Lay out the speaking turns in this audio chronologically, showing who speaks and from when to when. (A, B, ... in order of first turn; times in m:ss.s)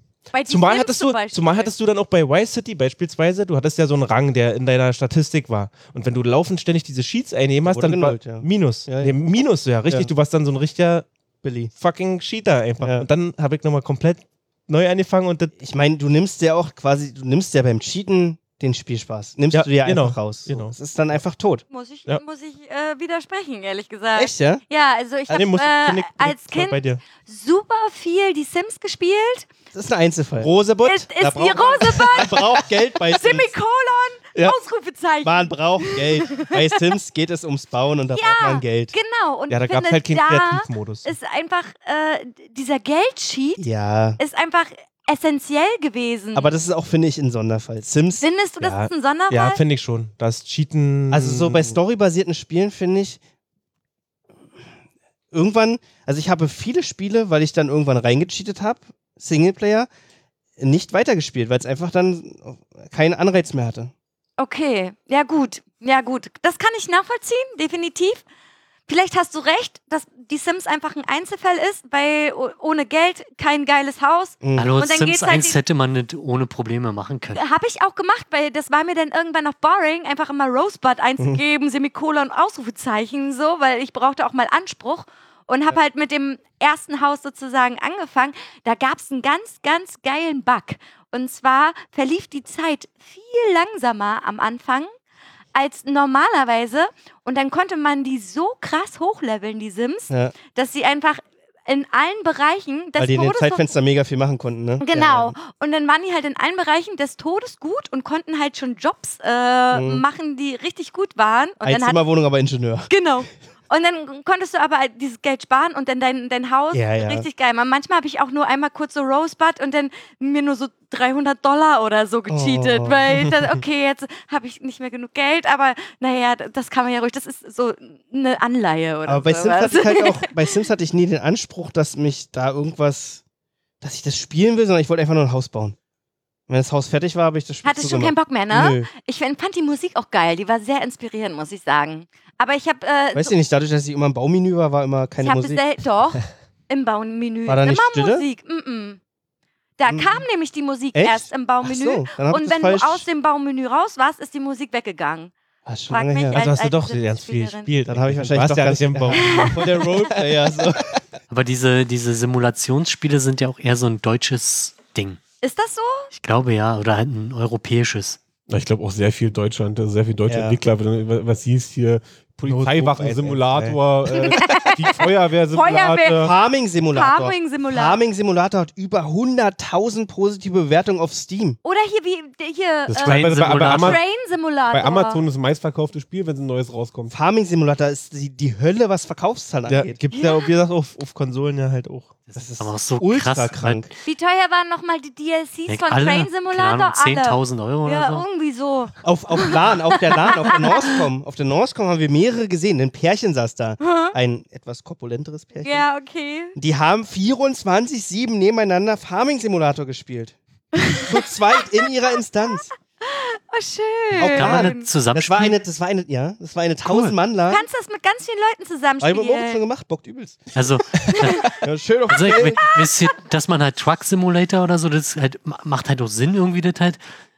0:00.3-0:01.7 A
0:00.4-0:11.1 B
0:07.6-0:09.1 C
0:11.4-0:11.7 C
0:11.8-0:15.6 B
0:12.8-0:13.0 C
0:15.6-0:21.6 C
0:19.5-0:20.8 B
0:21.7-0:29.5 A
0:24.1-0:24.6 C
0:25.3-0:27.0 B
0:29.7-0:30.6 C
0:30.4-0:31.3 B
0:30.8-0:32.4 A
0:31.1-0:33.5 C
0:31.8-0:32.3 B
0:33.1-0:36.8 A
0:35.2-0:38.9 C
0:38.1-0:43.6 A
0:39.5-0:41.1 B
0:43.6-0:44.2 C
0:44.2-0:46.5 A
0:46.3-0:48.2 C
0:48.2-0:49.6 A
0:48.6-0:51.7 B
0:51.1-0:53.2 C
0:55.3-0:59.9 C
1:00.6-1:03.9 C
1:04.4-1:08.2 A
1:08.9-1:15.6 A
1:14.4-1:14.7 C
1:14.6-1:17.4 D
1:17.3-1:34.9 A
1:35.5-1:43.6 A
1:40.1-1:40.3 C
1:43.0-1:45.4 C
1:44.8-1:52.0 A
1:49.7-1:50.0 C
1:51.6-1:52.9 C
1:52.9-2:10.3 A
1:56.7-1:57.3 C
2:02.3-2:03.2 C
2:09.0-2:13.2 C
2:13.8-2:15.8 C
2:16.5-2:18.9 C
2:17.6-2:23.3 A
2:23.1-2:25.6 C
2:25.2-2:29.0 A
2:27.4-2:28.2 C
2:29.8-2:35.3 A
2:29.9-2:30.2 C
2:30.9-2:33.0 C
2:35.6-2:36.4 C
2:35.9-2:37.7 A
2:36.3-2:40.3 B
2:37.9-2:40.9 C
2:39.1-2:39.9 A
2:41.3-2:45.2 D
2:45.4-2:46.1 A
2:46.1-2:48.2 D
2:48.5-2:56.3 E
2:50.2-2:50.6 C
2:52.4-2:53.8 B
2:53.5-2:53.7 C
2:54.2-2:56.3 A
2:56.2-3:01.6 C
2:56.9-2:58.0 A
3:01.6-3:05.2 A
3:02.9-3:04.0 E
3:03.0-3:04.0 D
3:03.3-3:03.7 B
3:04.7-3:07.1 E
3:07.1-3:10.0 C
3:09.7-3:12.3 B
3:10.1-3:10.5 A
3:12.3-3:13.9 D
3:12.3-3:13.9 C
3:14.0-3:21.0 A
3:15.7-3:18.2 D
3:19.0-3:25.8 C
3:23.8-3:24.2 A
3:25.6-3:26.6 A
3:26.6-3:30.4 C
3:30.8-3:31.8 A
3:31.0-3:32.7 C
3:33.0-3:34.9 A
3:34.1-3:35.6 D
3:34.1-3:37.6 C
3:36.8-3:37.1 D
3:37.5-3:39.6 A
3:39.0-3:42.6 C
3:40.5-3:47.0 D
3:41.1-3:41.5 A